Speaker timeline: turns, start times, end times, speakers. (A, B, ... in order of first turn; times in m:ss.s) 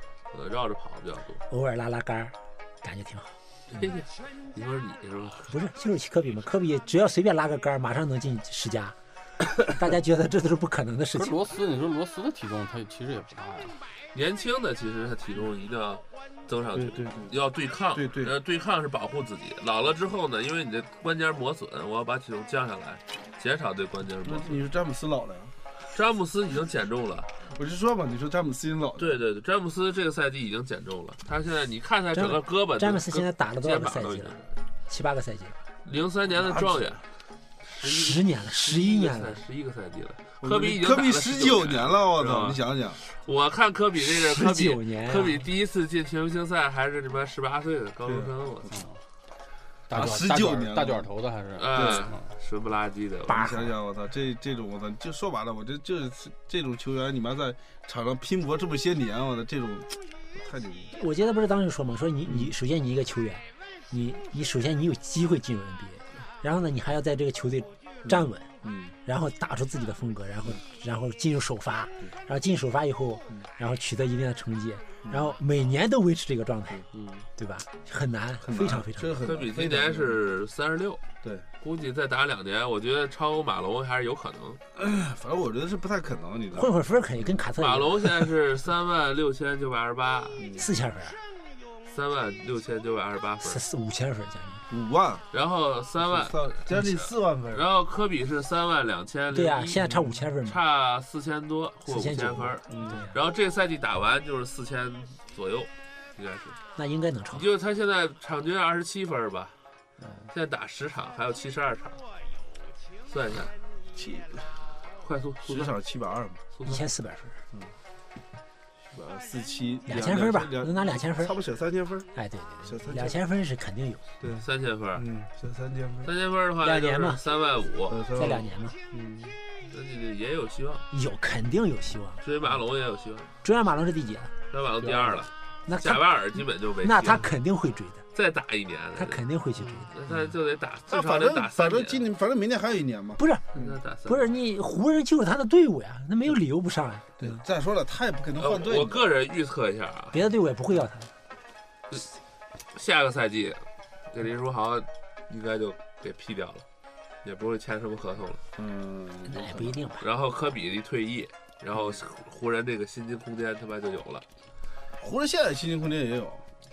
0:00.3-0:01.4 A
0:01.5-0:03.9 B
0:03.7-0:05.5 A
0:05.4-0:09.0 B
0:09.6-0:11.4 B
0:11.2-0:13.8 C
0:14.1-0:24.7 A
0:16.7-0:17.4 D
0:17.9-0:18.3 D
0:24.2-0:25.5 D
0:25.9-0:27.3 A
0:27.5-0:29.2 D
0:29.0-0:34.5 A
0:32.1-0:34.4 B
0:34.9-0:35.6 B
0:35.8-0:37.0 A
0:36.4-0:36.9 D
0:37.6-0:48.8 A
0:37.8-0:39.4 B
0:40.4-0:43.0 D
0:44.0-0:45.4 B
0:48.0-0:48.8 D
0:49.9-0:52.3 C
0:49.9-0:51.1 D
0:51.6-0:53.6 A
0:51.7-0:52.1 D
0:53.3-1:00.9 D
0:53.3-0:53.6 B
1:00.9-1:08.5 B
1:02.2-1:02.5 D
1:08.0-1:08.9 D
1:09.0-1:16.8 B
1:15.0-1:15.4 D
1:16.7-1:17.0 D
1:17.4-1:19.2 B
1:18.4-1:20.2 D
1:19.2-1:21.0 A
1:21.6-1:24.6 A
1:24.7-1:27.3 D
1:26.5-1:28.3 B
1:27.6-1:30.4 A
1:30.4-1:30.7 D
1:30.6-1:31.2 B
1:31.8-1:33.6 A
1:33.4-1:34.6 B
1:34.7-1:35.2 D
1:35.3-1:46.6 A
1:36.0-1:37.7 D
1:39.3-1:40.6 B
1:39.9-1:40.2 D
1:41.9-1:43.2 B
1:42.7-1:43.1 D
1:46.8-1:47.5 B
1:47.3-1:49.6 A
1:50.0-1:50.3 B
1:50.3-1:52.0 A
1:53.0-1:53.5 A
1:53.9-1:54.6 D
1:55.0-1:55.8 A
1:55.4-1:56.4 D
1:56.5-1:56.8 A
1:56.6-1:57.4 B
1:58.9-2:02.1 D
1:59.8-2:01.4 B
2:02.1-2:04.1 B
2:02.6-2:03.2 D
2:04.2-2:06.1 D
2:04.4-2:05.1 A
2:06.0-2:08.1 A
2:06.6-2:07.2 B
2:07.9-2:09.3 D
2:08.1-2:08.8 B
2:09.7-2:10.8 A
2:10.9-2:12.2 B
2:12.2-2:13.3 A
2:13.4-2:14.3 B
2:14.5-2:17.3 A
2:14.8-2:15.3 D
2:15.7-2:16.1 B
2:16.8-2:18.0 B
2:18.1-2:22.1 A
2:19.0-2:19.9 B
2:20.9-2:23.7 D
2:23.2-2:23.4 B
2:23.5-2:24.3 A
2:24.0-2:27.4 B
2:27.2-2:29.1 D
2:28.4-2:30.2 A
2:30.1-2:31.1 B
2:32.7-2:36.6 A
2:37.2-2:38.4 A
2:38.6-2:39.8 D
2:39.2-2:40.0 B
2:40.0-2:44.2 A
2:41.7-2:42.0 D
2:45.0-2:46.4 D